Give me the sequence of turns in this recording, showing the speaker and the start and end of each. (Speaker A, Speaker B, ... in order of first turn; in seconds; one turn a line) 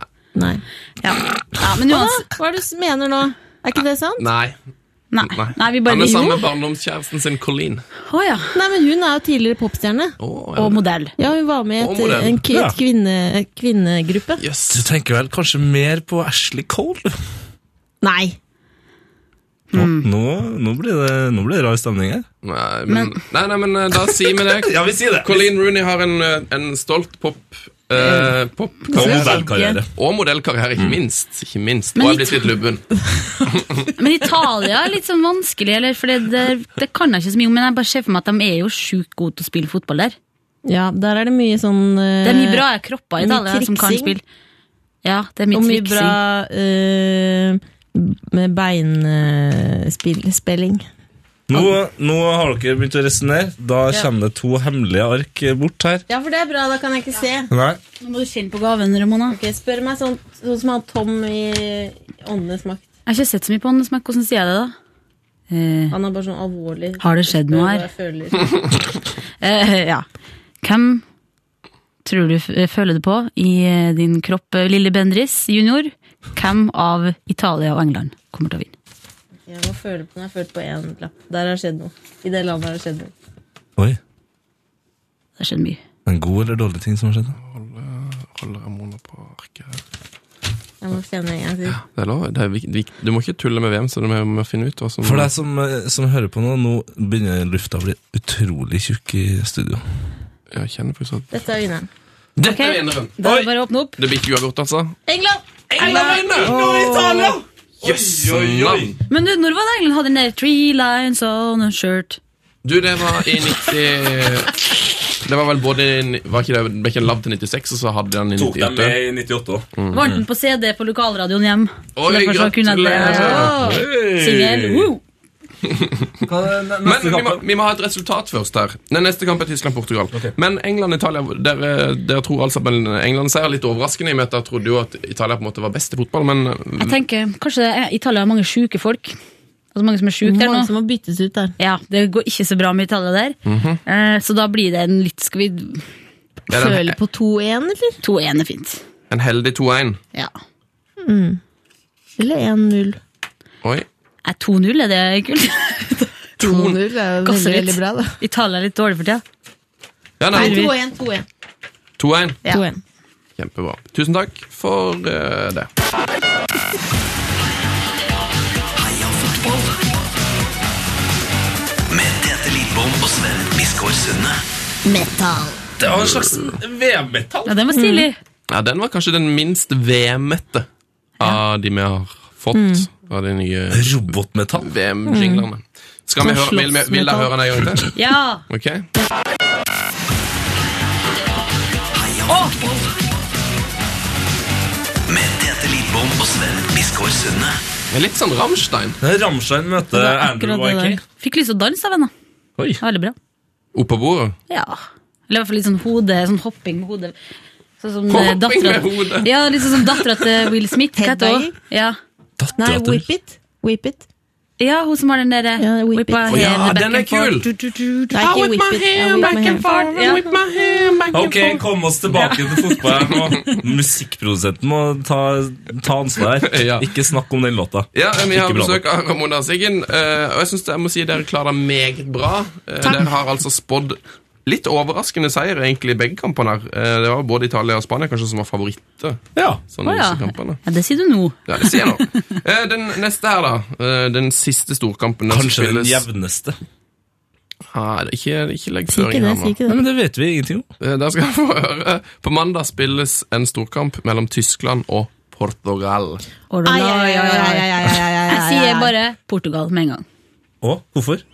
Speaker A: 0.3-0.6
Speaker B: 1.0-2.3
Speaker A: 1.8-4.3
Speaker C: 4.2-4.6
Speaker B: 5.1-6.4
Speaker C: 5.2-7.8
Speaker B: 8.1-8.5
Speaker A: 8.5-10.2
Speaker C: 10.2-10.9
Speaker B: 10.6-11.1
Speaker A: 11.2-14.4
Speaker C: 11.8-12.4
Speaker D: 12.5-12.8
Speaker C: 14.4-14.8
Speaker D: 14.7-17.1
Speaker A: 18.0-18.4
Speaker B: 19.7-20.1
Speaker D: 19.7-22.3
Speaker C: 22.4-32.9
Speaker B: 22.9-23.1
Speaker D: 24.5-25.5
Speaker A: 28.0-28.3
Speaker A: 28.9-29.8
Speaker D: 28.9-29.9
Speaker B: 32.0-32.5
Speaker C: 33.4-33.9
Speaker B: 34.0-40.1
Speaker A: 40.6-44.1
Speaker B: 42.2-44.2
Speaker B: 45.0-46.2
Speaker A: 45.5-50.9
Speaker D: 51.5-56.0
Speaker A: 56.1-57.5
Speaker D: 57.5-57.8
Speaker B: 58.0-59.4
Speaker A: 59.3-62.9
Speaker B: 63.1-64.7
Speaker B: 65.5-65.9
Speaker A: 65.9-68.8
Speaker B: 67.0-67.9
Speaker B: 69.4-70.0
Speaker B: 70.6-71.0
Speaker B: 72.0-78.7
Speaker A: 79.5-83.1
Speaker B: 85.4-85.8
Speaker D: 86.1-87.4
Speaker C: 87.4-89.8
Speaker A: 90.8-91.8
Speaker C: 91.7-95.3
Speaker D: 95.0-99.8
Speaker C: 100.5-101.3
Speaker A: 101.3-101.9
Speaker C: 102.4-103.2
Speaker B: 102.4-104.0
Speaker D: 103.2-103.5
Speaker C: 104.0-105.0
Speaker A: 105.1-107.4
Speaker D: 105.7-109.0
Speaker C: 105.8-106.5
Speaker C: 107.8-109.0
Speaker B: 109.1-112.2
Speaker C: 112.7-114.5
Speaker C: 115.2-119.0
Speaker D: 118.4-120.2
Speaker C: 119.8-120.0
Speaker B: 119.9-125.0
Speaker C: 122.0-123.5
Speaker A: 123.0-123.9
Speaker D: 123.5-124.9
Speaker C: 125.7-126.3
Speaker D: 126.2-127.4
Speaker C: 126.8-136.9
Speaker B: 136.8-139.2
Speaker B: 139.8-140.7
Speaker A: 140.2-141.5
Speaker B: 141.6-145.8
Speaker C: 143.5-143.8
Speaker C: 146.5-147.0
Speaker A: 146.5-148.0
Speaker B: 148.0-148.8
Speaker C: 149.1-150.0
Speaker A: 151.0-151.4
Speaker A: 152.2-153.0
Speaker B: 154.2-156.1
Speaker A: 156.4-158.2
Speaker C: 156.4-156.8
Speaker B: 157.2-159.2
Speaker C: 160.2-160.6
Speaker A: 160.3-161.2
Speaker B: 160.3-160.7
Speaker C: 162.0-162.4
Speaker A: 162.5-162.8
Speaker C: 163.4-165.7
Speaker E: 168.8-169.8
Speaker E: 171.9-174.4
Speaker A: 174.8-175.6
Speaker D: 175.8-177.6
Speaker C: 175.9-176.6
Speaker B: 177.5-178.2
Speaker A: 177.7-178.1
Speaker C: 178.5-180.7
Speaker C: 181.2-187.9
Speaker A: 182.5-182.9
Speaker D: 183.7-184.7
Speaker A: 185.1-185.5
Speaker A: 186.2-187.3
Speaker B: 187.9-188.4
Speaker C: 188.5-188.9
Speaker E: 191.9-192.9
Speaker B: 192.3-192.6
Speaker E: 195.1-197.6
Speaker C: 197.9-199.0
Speaker D: 199.0-201.0
Speaker A: 200.0-201.0
Speaker B: 201.0-202.1
Speaker B: 202.8-203.2
Speaker C: 203.8-204.4
Speaker B: 204.5-207.2
Speaker B: 207.8-212.0
Speaker C: 208.1-210.0
Speaker A: 210.9-211.6
Speaker D: 212.4-213.1
Speaker A: 212.6-214.1
Speaker B: 214.6-218.4
Speaker A: 215.6-216.6
Speaker C: 216.3-217.5
Speaker A: 218.1-220.2
Speaker C: 218.2-221.6
Speaker B: 219.1-220.2
Speaker D: 221.1-228.8
Speaker B: 222.1-223.3
Speaker C: 226.4-226.9
Speaker C: 227.9-240.6
Speaker D: 239.4-239.6
Speaker B: 239.8-242.2
Speaker C: 241.5-246.1
Speaker D: 245.3-246.6
Speaker C: 247.7-249.6
Speaker A: 248.9-249.8
Speaker D: 249.7-250.7
Speaker C: 250.8-256.2
Speaker B: 256.5-257.7
Speaker A: 256.6-258.9
Speaker B: 258.3-260.1
Speaker D: 260.6-261.2